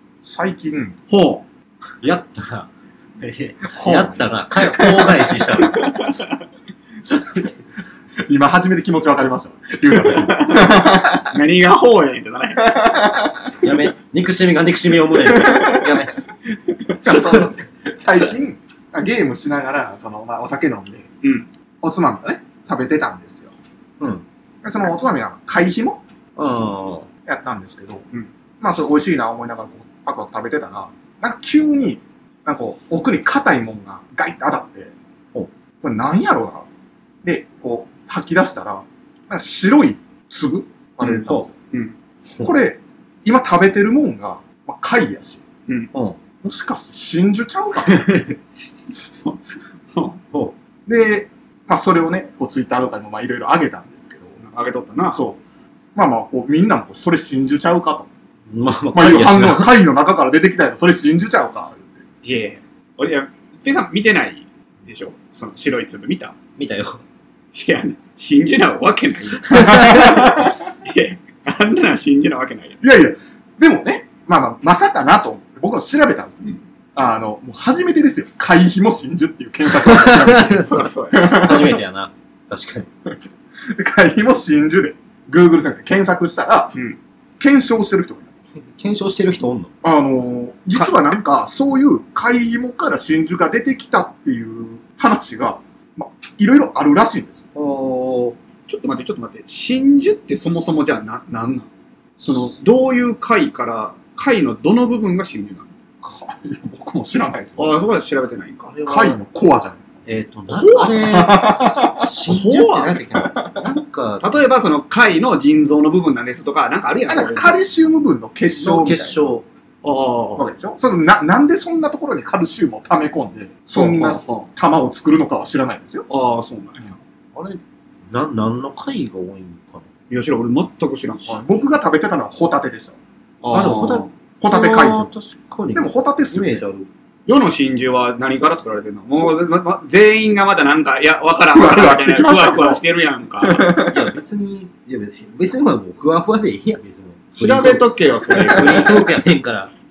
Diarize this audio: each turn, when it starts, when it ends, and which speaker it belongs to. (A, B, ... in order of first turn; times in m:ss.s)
0:00.2-0:01.0 A
0:01.1-0:01.4 B
0:02.0-0:05.9 C
0:03.8-0:04.1 A
0:04.7-0:05.4 A
0:05.6-0:06.3 B
0:08.2-0:11.3 A
0:09.9-0:12.8 B
0:12.6-0:13.3 A
0:13.6-0:16.1 C
0:15.3-0:15.9 A
0:16.7-0:17.0 B
0:17.0-0:21.1 A
0:21.2-0:21.5 B
0:21.8-0:23.5 A
0:24.6-0:26.0 A
0:26.4-0:27.1 C
0:27.2-0:28.0 A
0:28.6-0:34.9 A
0:35.8-0:36.7 A
0:37.2-0:41.5 A
0:41.0-0:42.0 B
0:41.2-0:41.5 C
0:42.4-0:45.4 A
0:45.9-0:46.2 C
0:46.4-0:48.1 A
0:47.9-0:48.3 C
0:49.2-0:50.2 B
0:50.9-0:54.4 A
0:54.4-0:55.2 B
0:55.1-0:55.4 A
0:55.9-0:58.1 A
0:58.5-0:59.7 C
0:58.9-1:02.0 A
1:02.2-1:06.4 B
1:06.6-1:07.0 C
1:07.5-1:12.8 B
1:09.5-1:10.6 A
1:09.5-1:10.2 C
1:12.8-1:21.8 A
1:19.7-1:20.7 C
1:20.6-1:21.6 B
1:21.2-1:22.9 C
1:23.7-1:26.7 A
1:27.4-1:28.3 A
1:28.8-1:29.7 C
1:29.8-1:37.4 A
1:37.5-1:38.4 C
1:38.7-1:41.7 B
1:42.2-1:42.5 C
1:42.2-1:45.7 B
1:46.0-1:47.8 A
1:47.6-1:48.7 B
1:48.6-1:49.2 C
1:48.8-1:50.0 A
1:50.0-1:54.4 C
1:50.5-1:51.0 B
1:50.9-1:52.1 A
1:52.2-1:53.0 B
1:53.1-1:53.7 A
1:54.2-1:57.6 B
1:57.1-1:59.2 A
1:58.6-1:59.4 C
1:59.8-2:00.5 B
2:00.4-2:06.0 A
2:03.7-2:04.5 B
2:06.1-2:06.9 B
2:07.3-2:09.9 C
2:10.1-2:11.4 B
2:11.2-2:13.0 A
2:13.4-2:14.1 B
2:13.5-2:16.9 C
2:14.4-2:15.1 A
2:15.7-2:16.6 A
2:17.3-2:23.7 B
2:21.5-2:22.8 A
2:23.4-2:24.0 A
2:23.8-2:29.7 C
2:27.3-2:29.1 B
2:28.4-2:29.0 A